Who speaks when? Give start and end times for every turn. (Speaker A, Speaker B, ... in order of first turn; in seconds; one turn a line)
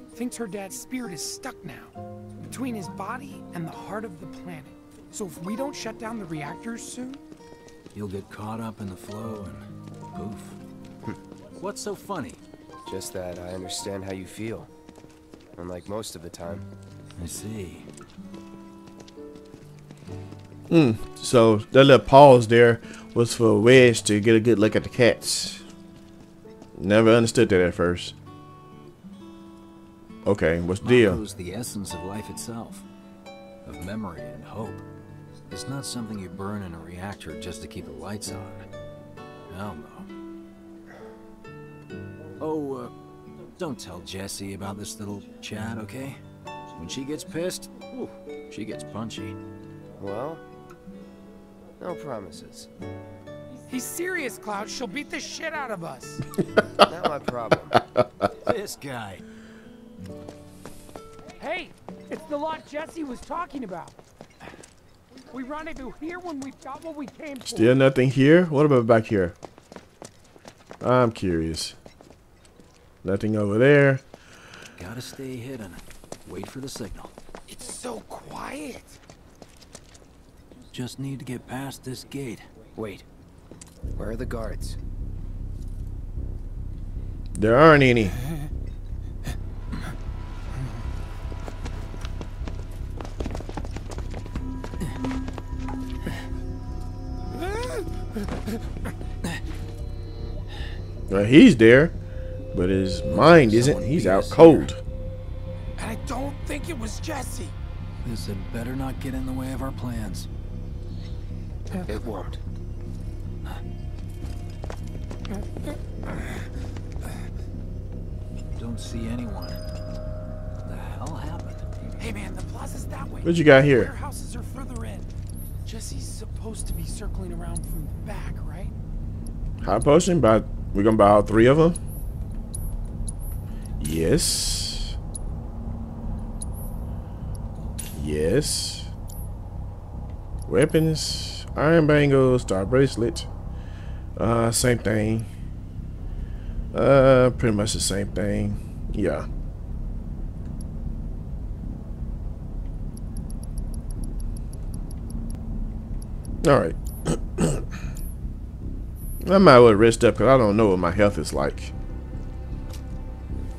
Speaker A: 0.2-7.2
Speaker B: 7.9-10.6
Speaker B: 11.6-12.4
Speaker C: 12.9-14.7
Speaker C: 15.6-16.7
Speaker B: 17.2-17.9
Speaker D: 20.7-25.6
Speaker D: 26.8-28.1
Speaker D: 30.2-31.2
Speaker B: 30.8-32.9
Speaker B: 33.7-34.8
Speaker B: 35.5-38.7
Speaker B: 39.5-40.1
Speaker B: 42.4-42.9
Speaker B: 43.6-46.2
Speaker B: 46.8-49.4
Speaker C: 50.0-50.4
Speaker C: 51.8-52.7
Speaker A: 53.7-56.2
Speaker C: 56.9-57.8
Speaker D: 57.8-58.3
Speaker B: 58.3-59.2
Speaker A: 61.4-64.0
Speaker A: 65.3-67.8
Speaker D: 67.5-69.4
Speaker D: 70.8-71.8
Speaker D: 73.0-74.0
Speaker B: 74.8-77.1
Speaker A: 77.5-79.0
Speaker B: 80.7-82.5
Speaker C: 82.8-83.0
Speaker C: 84.0-84.8
Speaker D: 87.3-88.2
Speaker D: 101.1-102.0
Speaker D: 102.5-104.8
Speaker B: 103.1-104.7
Speaker A: 105.8-107.5
Speaker B: 108.0-110.3
Speaker C: 111.9-112.4
Speaker B: 118.6-119.6
Speaker B: 120.6-121.6
Speaker A: 122.0-125.1
Speaker D: 123.2-123.9
Speaker A: 125.7-128.7
Speaker D: 129.6-131.8
Speaker D: 133.8-135.0
Speaker D: 137.9-138.9
Speaker D: 140.5-143.3
Speaker D: 144.2-145.3
Speaker D: 146.7-149.3
Speaker D: 156.4-157.8
Speaker D: 159.2-161.7